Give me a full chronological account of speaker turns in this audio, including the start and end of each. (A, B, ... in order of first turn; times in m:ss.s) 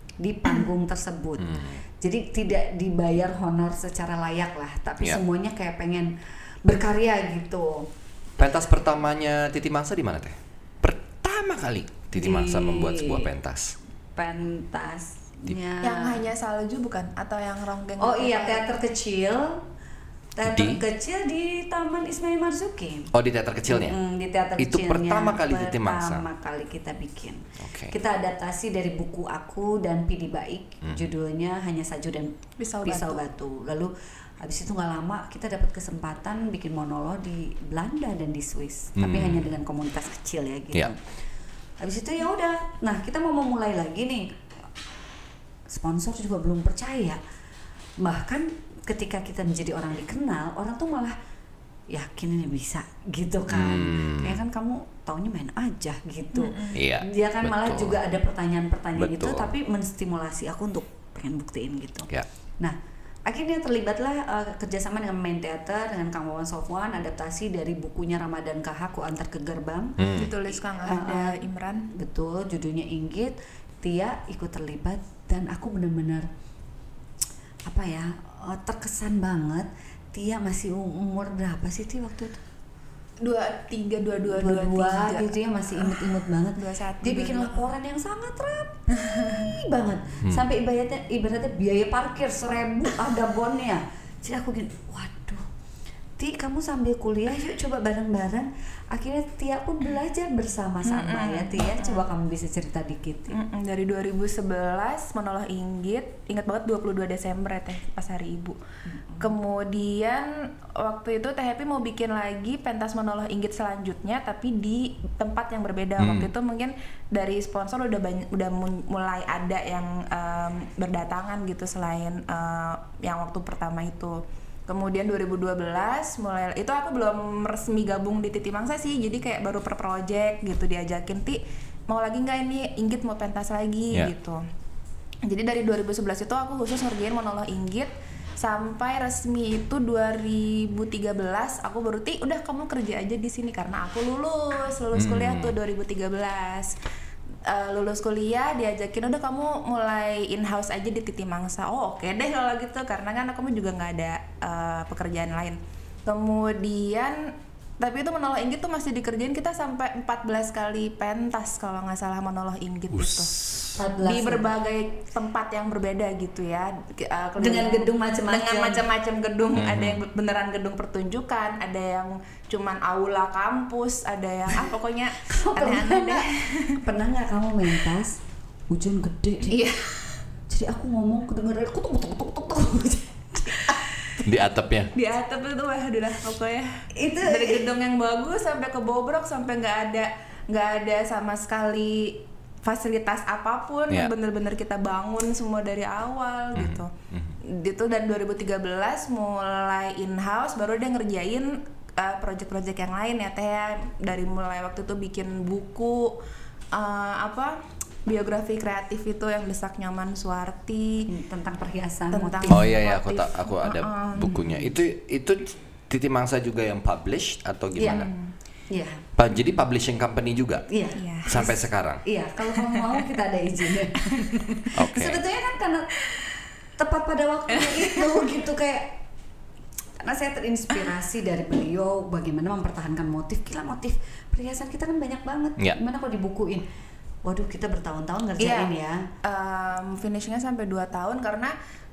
0:00.2-0:07.9 A
0:01.4-0:01.8 B
0:08.4-0:13.7 B
0:12.2-0:13.3 A
0:14.1-0:16.2 A
0:15.8-0:18.7 C
0:18.0-0:19.6 A
0:20.4-0:23.1 A
0:20.4-0:20.8 B
0:23.1-0:24.0 B
0:23.6-0:41.0 A
0:24.6-0:26.2 B
0:27.6-0:27.9 B
0:30.8-0:31.1 B
0:32.6-0:33.2 C
0:39.0-0:39.5 B
0:41.8-0:44.4 A
0:45.7-0:47.2 A
0:48.0-0:51.1 A
0:51.9-1:02.1 A
0:53.5-0:54.4 B
0:56.3-0:56.8 C
0:56.7-0:58.0 B
0:59.0-0:59.5 B
1:02.6-1:10.1 A
1:10.0-1:10.3 B
1:10.1-1:11.9 C
1:10.8-1:11.4 A
1:11.9-1:16.3 A
1:17.6-1:22.4 A
1:23.2-1:27.7 C
1:24.2-1:35.4 A
1:28.9-1:29.5 C
1:36.2-1:43.4 A
1:40.8-1:42.0 C
1:43.3-1:48.6 C
1:48.9-1:49.3 A
1:49.2-2:14.4 C
1:56.0-1:56.3 B
2:15.2-2:26.7 C
2:24.9-2:25.5 B
2:27.5-2:43.3 C
2:42.9-2:43.7 B
2:43.8-2:44.5 A
2:44.0-2:56.8 C
2:47.4-2:48.8 A
2:49.6-2:50.0 B
2:55.3-2:56.2 A
2:56.8-2:58.2 A
2:58.7-2:59.7 A
2:59.5-3:00.2 C
3:00.5-3:03.9 A
3:04.2-3:04.9 B
3:04.9-3:16.9 C
3:06.9-3:07.7 A
3:16.5-3:17.3 B
3:17.4-3:26.2 C
3:26.7-3:31.1 C
3:31.1-3:32.8 A
3:32.1-3:34.6 C
3:32.5-3:38.1 B
3:37.8-3:38.1 A
3:37.8-3:38.3 C
3:38.7-3:39.0 A
3:39.2-3:40.6 B
3:40.7-3:45.9 A
3:41.0-3:41.3 C
3:41.2-3:42.0 B
3:42.5-3:43.0 C
3:44.7-3:45.2 B
3:46.8-3:49.0 A
3:47.5-3:48.1 C
3:50.0-3:56.7 A
3:57.2-3:59.1 A
3:58.4-3:58.7 C
3:59.2-4:01.5 C